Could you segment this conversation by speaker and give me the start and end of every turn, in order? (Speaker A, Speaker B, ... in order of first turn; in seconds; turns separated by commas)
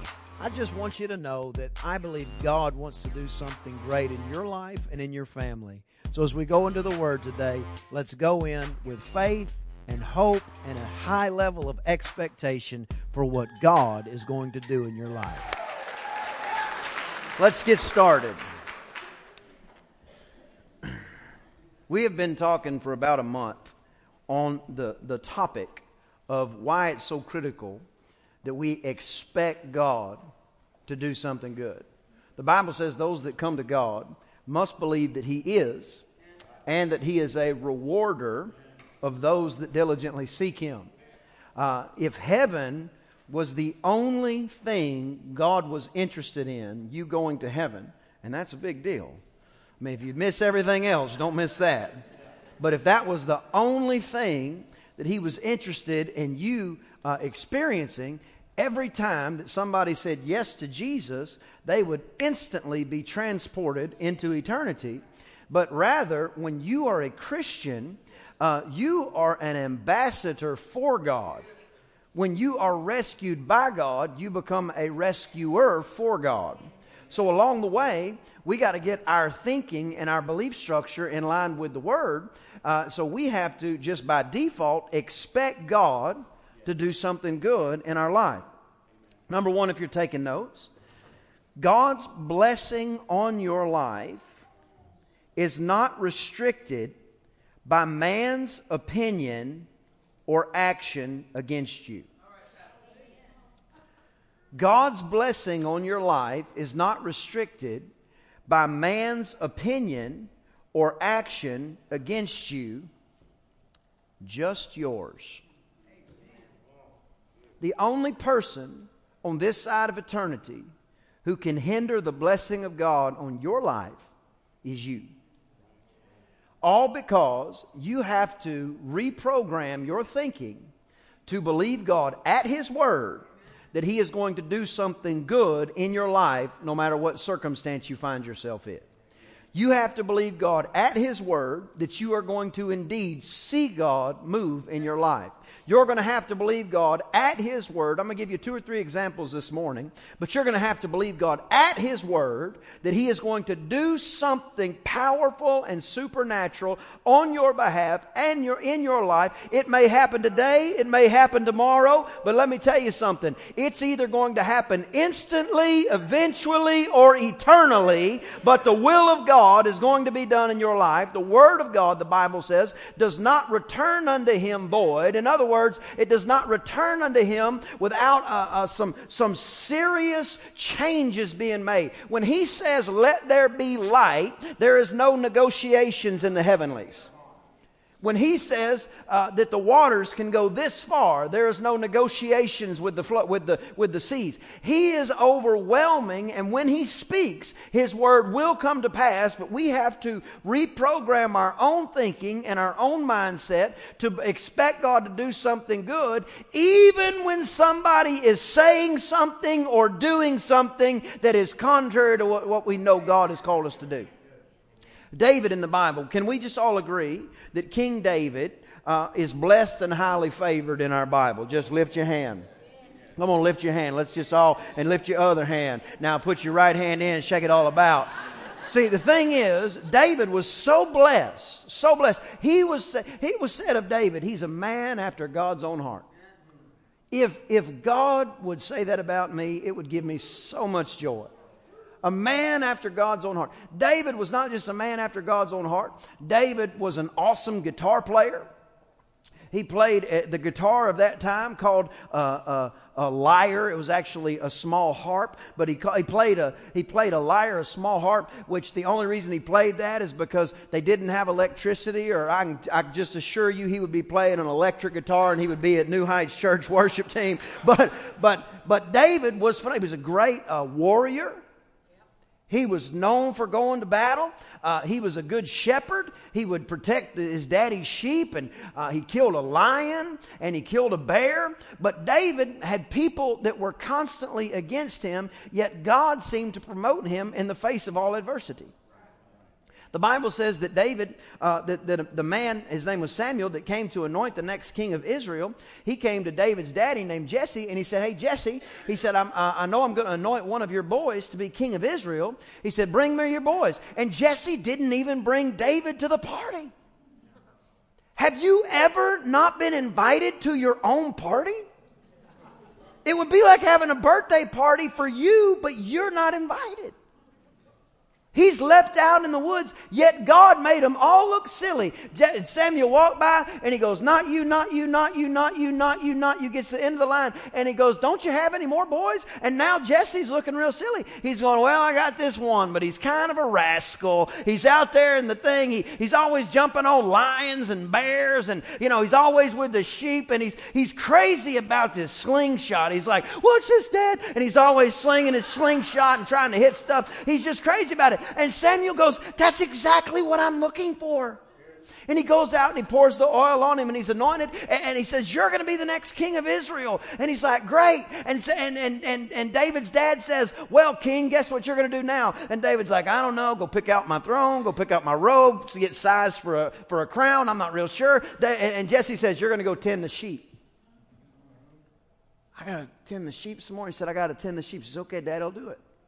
Speaker A: 0.4-15.5, Speaker A: 17.4-18.4, Speaker A: 21.9-23.7, Speaker A: 24.3-27.8, Speaker A: 28.4-30.2, Speaker A: 30.9-31.9, Speaker A: 32.4-36.0, Speaker A: 36.6-40.9, Speaker A: 41.5-49.2, Speaker A: 49.8-52.0, Speaker A: 52.6-71.4, Speaker A: 72.1-88.4, Speaker A: 89.3-90.7, Speaker A: 91.6-94.4, Speaker A: 95.3-96.9, Speaker A: 97.6-99.7, Speaker A: 100.3-102.1, Speaker A: 104.5-107.9, Speaker A: 108.5-112.9, Speaker A: 114.2-115.4, Speaker A: 117.6-120.7, Speaker A: 121.2-124.1, Speaker A: 124.6-125.1, Speaker A: 126.6-130.7, Speaker A: 131.3-138.9, Speaker A: 139.5-187.1, Speaker A: 188.0-214.1, Speaker A: 215.1-222.5, Speaker A: 223.2-228.1, Speaker A: 228.7-236.1, Speaker A: 237.1-241.3, Speaker A: 242.0-248.5, Speaker A: 249.5-271.4, Speaker A: 272.5-288.7, Speaker A: 289.9-306.7, Speaker A: 308.1-311.6, Speaker A: 313.0-316.9, Speaker A: 318.3-351.4, Speaker A: 352.1-370.5, Speaker A: 372.5-375.8